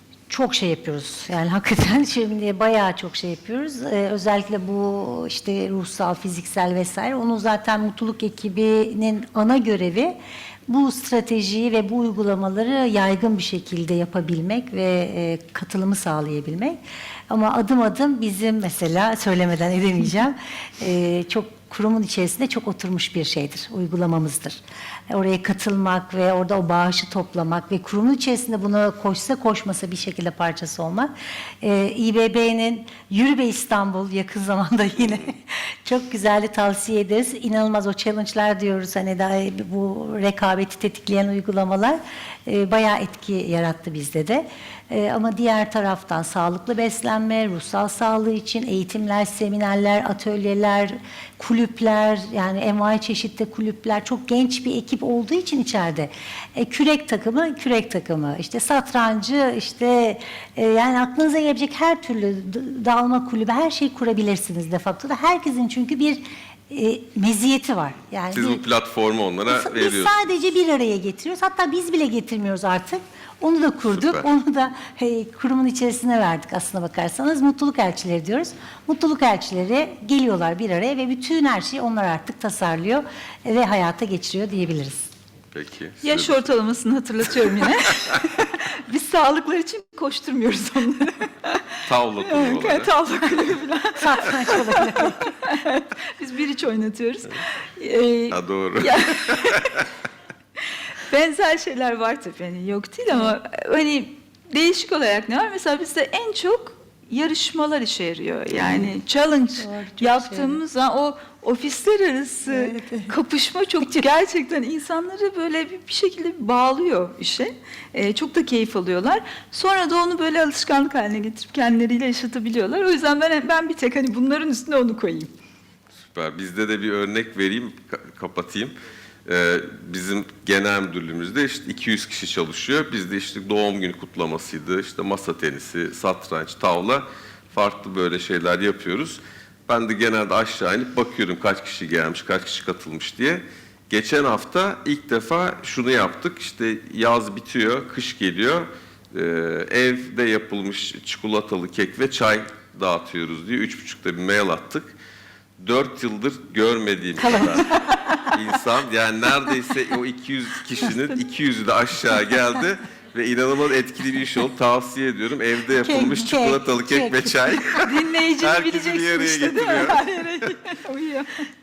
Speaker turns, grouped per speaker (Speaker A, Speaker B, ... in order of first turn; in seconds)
Speaker A: 0.3-68.6, 69.5-85.1, 94.0-95.3, 109.6-110.6, 112.5-113.1, 157.2-158.3, 165.8-167.8
Speaker B: 68.3-70.2, 73.9-74.2, 85.5-86.5, 91.8-92.9, 98.3-99.8, 126.0-128.7, 129.2-154.9, 155.6-170.0
Speaker C: 86.0-91.7, 92.2-99.7, 101.0-125.3, 167.8-171.4